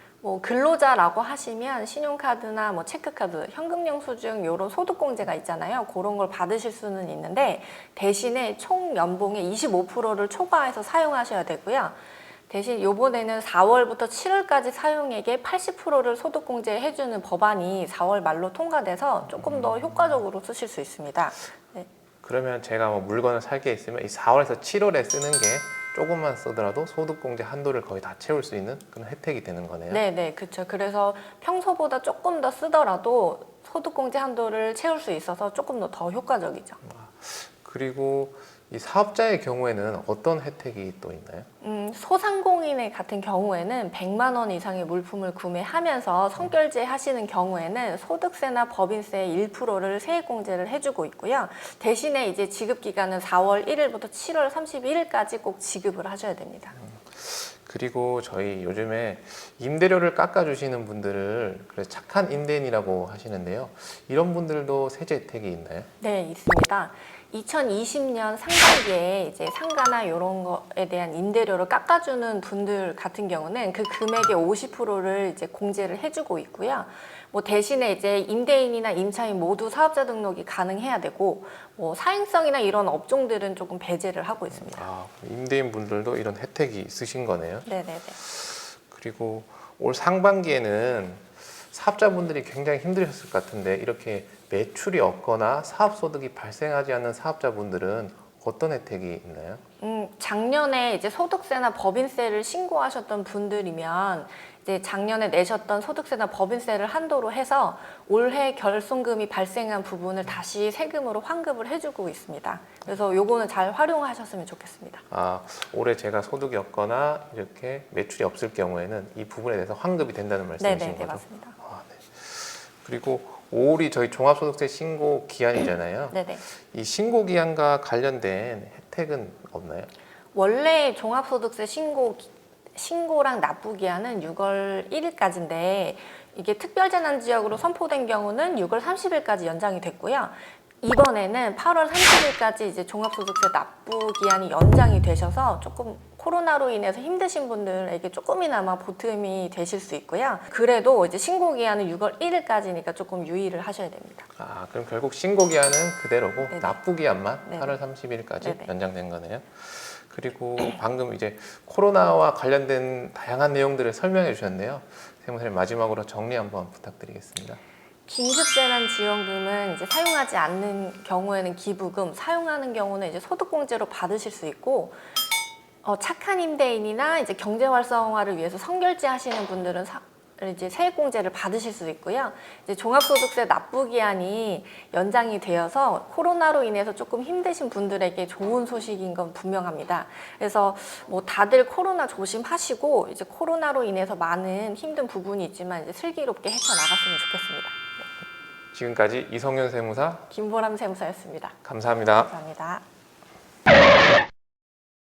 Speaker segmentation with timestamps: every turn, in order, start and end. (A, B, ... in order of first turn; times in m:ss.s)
0:00.2-0:12.0 A
0:12.5-0:21.9 A
0:19.3-0:20.2 B
0:22.2-0:30.0 B
0:29.9-0:36.8 A
0:36.8-0:41.5 B
0:41.6-0:56.8 A
0:56.8-1:05.9 B
1:06.0-1:24.8 A
1:24.5-1:27.7 B
1:27.7-1:28.2 A
1:28.2-1:39.6 B
1:39.8-1:55.0 A
1:55.1-2:09.9 B
2:00.6-2:01.6 A
2:06.1-2:06.4 A
2:10.3-2:34.3 A
2:34.4-2:47.6 B
2:36.5-2:36.8 A
2:37.4-2:37.8 A
2:38.4-2:38.7 A
2:48.1-2:55.0 A
2:55.8-3:18.1 A
3:18.7-3:20.2 B
3:20.3-3:22.8 A
3:21.6-3:22.3 B